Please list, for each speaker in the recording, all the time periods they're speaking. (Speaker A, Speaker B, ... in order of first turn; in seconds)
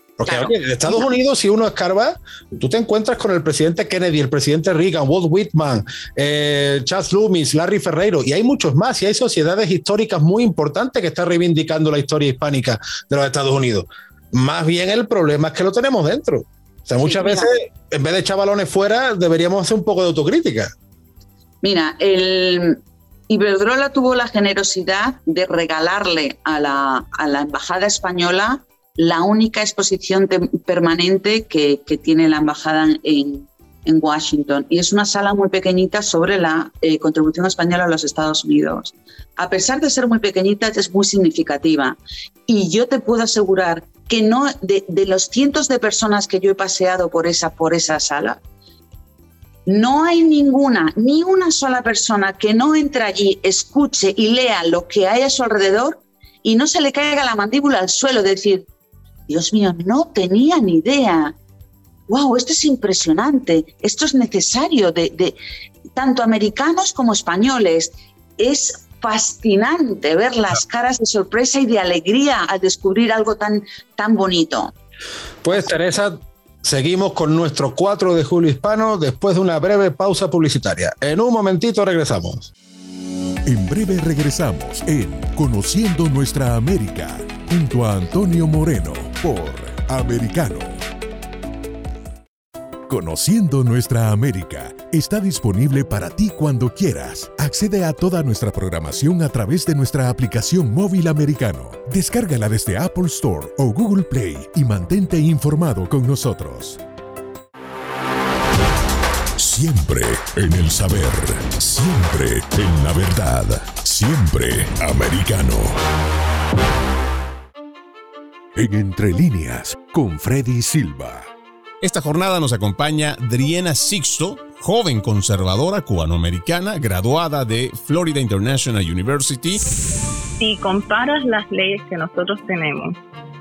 Speaker A: 0.2-20.7, 75.4-82.5
Speaker B: 0.3-1.1, 17.0-17.5, 21.6-48.4, 49.6-58.6, 59.3-61.4, 62.1-65.4, 65.9-74.7
Speaker C: 83.5-90.8, 92.9-106.8, 109.4-115.8, 118.5-121.3
Speaker D: 121.8-129.6
Speaker E: 130.4-133.0